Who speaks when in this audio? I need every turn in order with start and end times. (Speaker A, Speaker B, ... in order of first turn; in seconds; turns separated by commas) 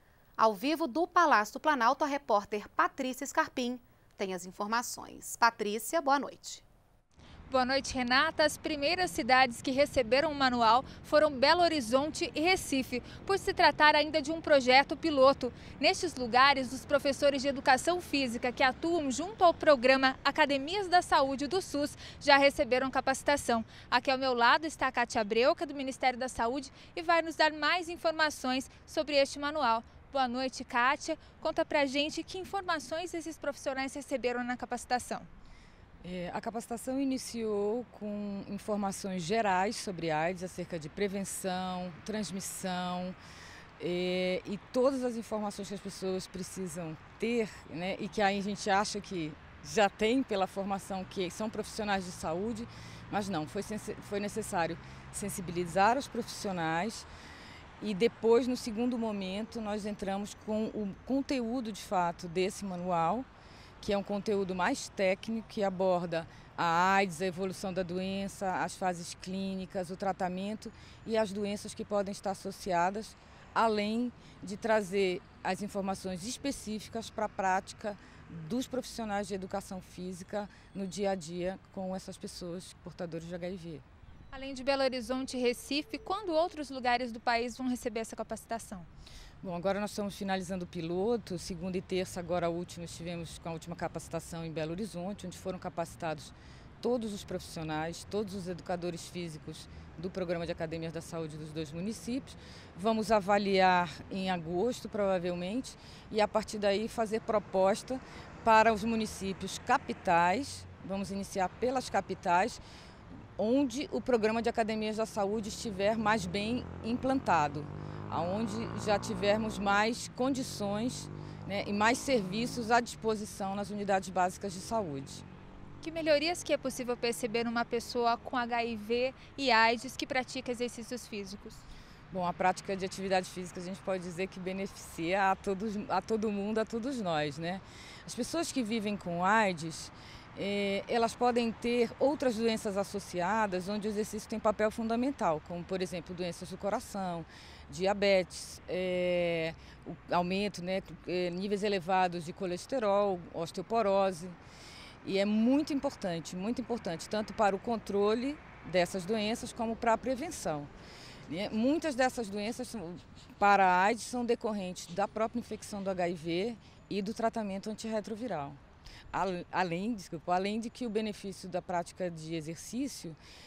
Speaker A: 0.4-6.6, Speaker B: 7.5-35.3, Speaker C: 36.0-43.2, Speaker C: 43.8-57.1, Speaker C: 57.8-63.3, Speaker C: 63.8-83.8, Speaker B: 84.3-88.9, Speaker C: 89.4-112.6, Speaker C: 113.4-125.2, Speaker B: 125.8-131.6, Speaker C: 132.1-154.4, Speaker C: 155.0-160.7, Speaker C: 161.3-168.6, Speaker C: 169.1-173.2